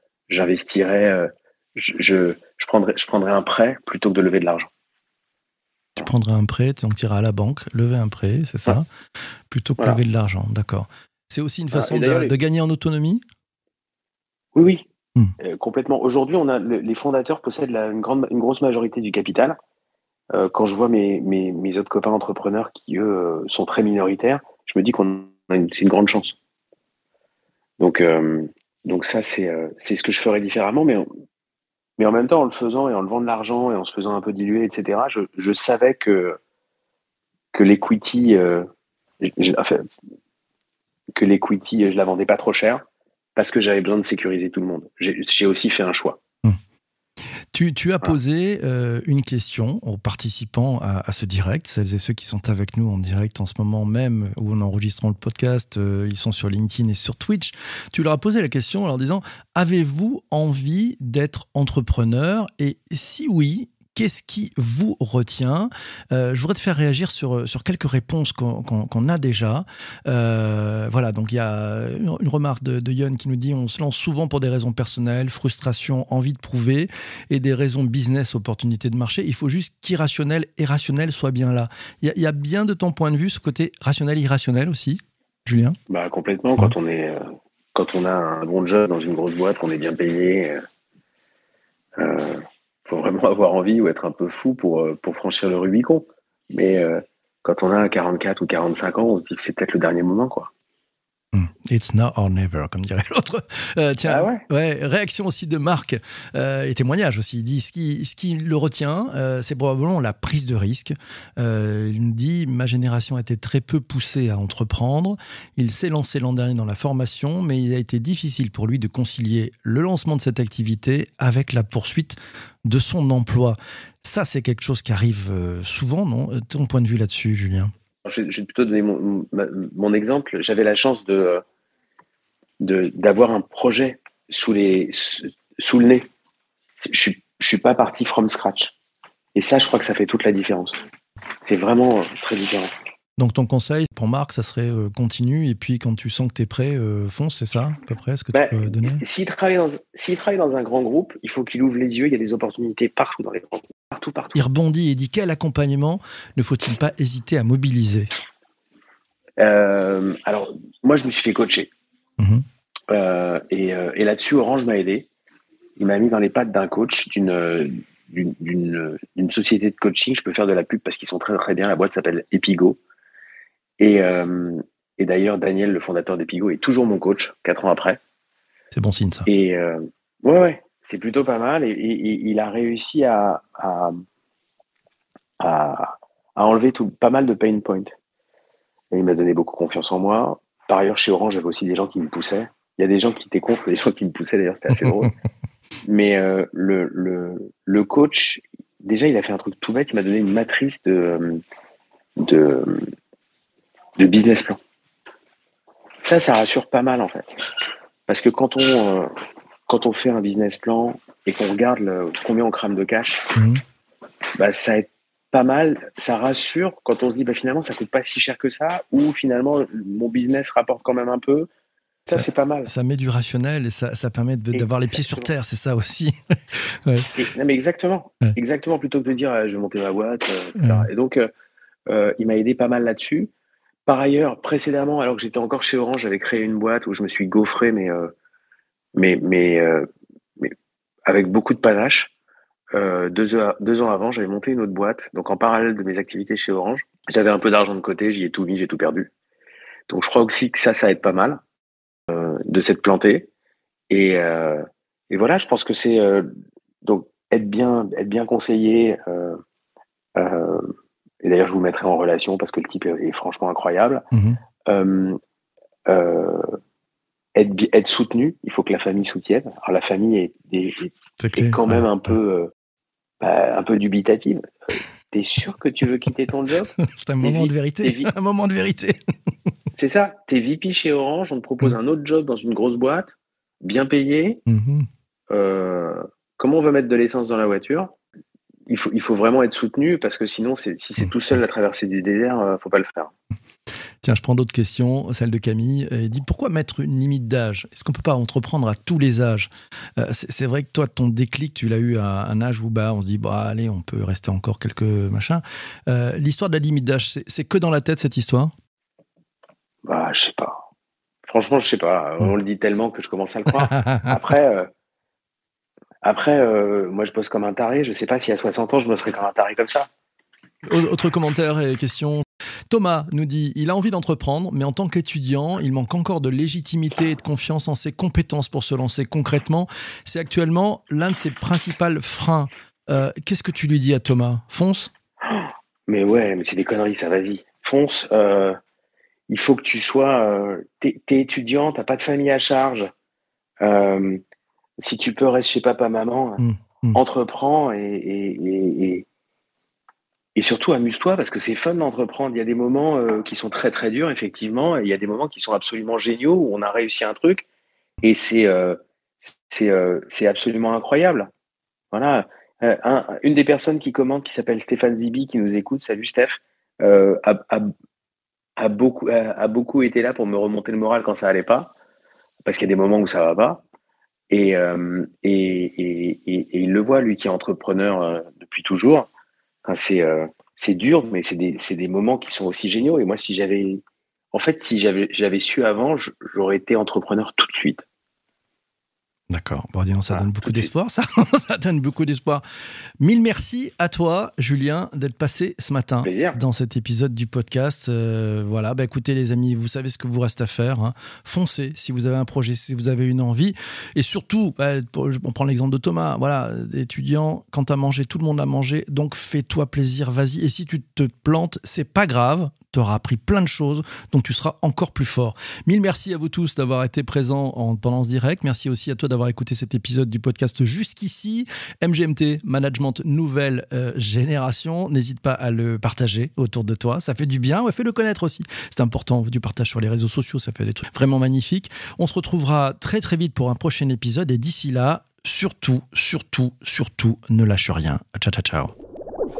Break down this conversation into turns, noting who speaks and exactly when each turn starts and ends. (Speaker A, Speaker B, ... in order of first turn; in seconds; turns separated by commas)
Speaker A: 0.3-4.7, Speaker B: 6.0-8.9, Speaker B: 9.5-13.2, Speaker A: 11.7-12.3, Speaker A: 14.5-14.8, Speaker A: 15.4-19.6, Speaker A: 20.3-26.4, Speaker A: 27.8-31.0, Speaker A: 32.0-36.4, Speaker A: 37.5-38.7, Speaker A: 39.2-39.8, Speaker A: 41.1-42.8, Speaker A: 43.4-46.2, Speaker B: 47.5-85.8, Speaker A: 85.9-90.6, Speaker A: 92.0-100.5, Speaker B: 101.3-127.7, Speaker A: 104.0-104.4, Speaker A: 128.0-131.4, Speaker A: 132.6-136.1, Speaker A: 136.8-138.7, Speaker A: 139.3-140.8, Speaker A: 141.4-142.7, Speaker B: 143.2-149.0, Speaker A: 148.3-154.4, Speaker B: 154.3-158.1, Speaker A: 159.4-161.7, Speaker B: 162.2-162.4, Speaker A: 162.9-165.1, Speaker A: 165.8-172.8, Speaker A: 173.8-178.0, Speaker B: 178.7-179.3, Speaker A: 179.3-184.0, Speaker A: 185.4-187.9, Speaker A: 188.9-195.1, Speaker A: 195.8-201.4, Speaker A: 202.2-202.8, Speaker A: 204.0-204.6, Speaker A: 206.0-207.3, Speaker A: 208.1-209.1, Speaker A: 209.7-213.3, Speaker B: 213.3-213.6, Speaker A: 214.3-221.5, Speaker A: 222.1-222.7, Speaker B: 222.1-227.1, Speaker A: 224.5-225.3, Speaker A: 227.1-231.3, Speaker B: 230.6-230.9, Speaker A: 231.9-233.3, Speaker A: 233.8-238.1, Speaker A: 238.9-239.9, Speaker A: 241.1-242.1, Speaker A: 242.7-249.1, Speaker A: 249.9-251.4, Speaker A: 252.1-253.3, Speaker A: 253.9-256.3, Speaker A: 256.8-259.4, Speaker A: 260.1-260.7, Speaker A: 261.2-264.0, Speaker B: 264.1-264.4, Speaker A: 264.7-265.2, Speaker A: 265.9-266.6, Speaker A: 267.3-272.5, Speaker B: 271.2-271.9, Speaker A: 273.2-274.4, Speaker A: 275.1-276.7, Speaker B: 276.7-279.0, Speaker A: 277.2-278.1, Speaker A: 279.7-284.4, Speaker B: 284.5-284.9, Speaker A: 285.3-287.9, Speaker A: 288.7-293.1, Speaker B: 294.0-308.5, Speaker A: 309.8-310.6, Speaker A: 311.2-314.7, Speaker B: 313.5-314.1, Speaker A: 316.0-319.9, Speaker B: 320.7-334.9, Speaker A: 335.2-338.6, Speaker A: 339.3-342.9, Speaker A: 343.6-344.2, Speaker A: 344.8-346.4, Speaker B: 346.4-347.0, Speaker A: 346.9-349.1, Speaker A: 350.3-357.4, Speaker A: 358.0-361.3, Speaker A: 361.9-367.7, Speaker A: 368.6-371.7, Speaker A: 372.4-373.6, Speaker A: 374.3-379.1, Speaker A: 379.6-383.8, Speaker A: 384.3-387.8, Speaker B: 389.3-392.4, Speaker A: 390.1-390.7, Speaker B: 393.0-438.7, Speaker A: 396.0-396.4